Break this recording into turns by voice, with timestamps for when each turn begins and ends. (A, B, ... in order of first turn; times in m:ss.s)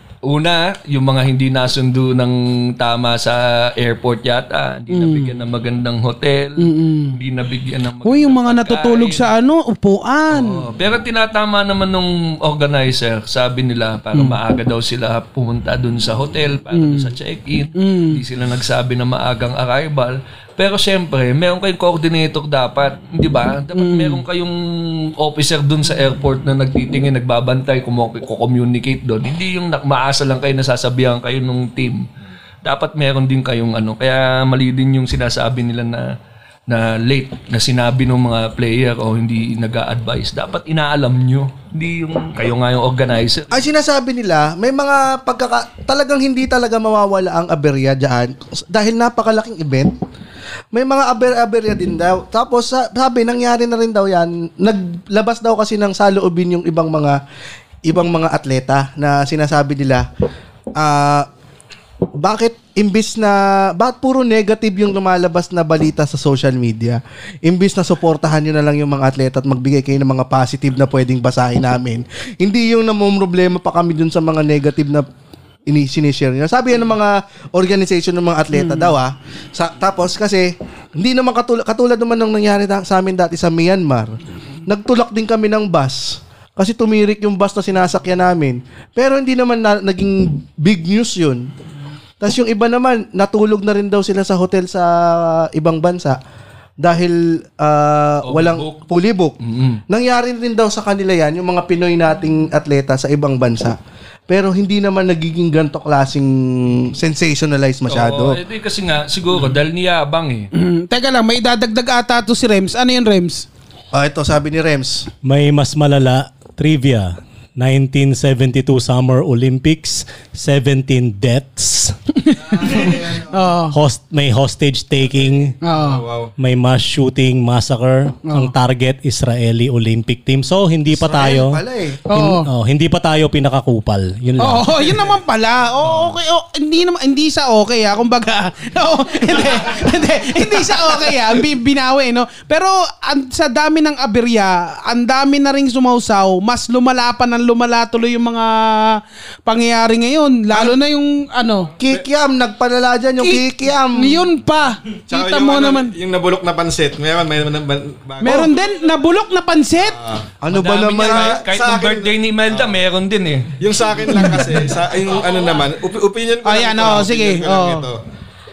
0:00.2-0:09.2 A
0:04.9-0:05.3 B
0:06.6-0:07.2 B
0:08.0-0:10.6 B
0:10.3-0:32.1 A
0:16.7-0:17.1 B
0:17.8-0:18.2 B
0:23.8-0:24.2 B
0:32.6-0:36.1 A
0:36.7-0:43.6 A
0:43.5-0:49.9 C
0:50.7-0:57.2 C
0:57.8-1:00.1 C
1:00.8-1:01.3 C
1:02.2-1:15.1 C
1:15.7-1:31.5 C
1:18.5-1:18.9 B
1:32.2-1:36.2 C
1:36.8-1:39.4 C
1:38.2-1:38.8 A
1:39.4-1:39.8 A
1:39.9-1:43.8 C
1:44.3-1:48.4 C
1:47.9-1:50.5 A
1:50.6-1:53.5 B
1:53.9-1:55.1 C
1:55.2-2:01.9 D
2:02.2-2:03.8 B
2:03.7-2:05.5 D
2:05.6-2:06.0 B
2:05.7-2:06.3 E
2:06.4-2:15.0 D
2:10.9-2:12.0 C
2:12.1-2:12.5 B
2:14.4-2:31.7 B
2:31.8-2:34.3 C
2:33.2-2:35.9 B
2:35.1-2:38.5 E
2:38.2-2:40.0 B
2:39.9-2:40.2 E
2:40.4-2:41.4 C
2:40.5-2:43.6 A
2:41.0-2:42.8 E
2:43.6-2:48.0 E
2:44.1-2:44.5 B
2:46.4-2:47.9 B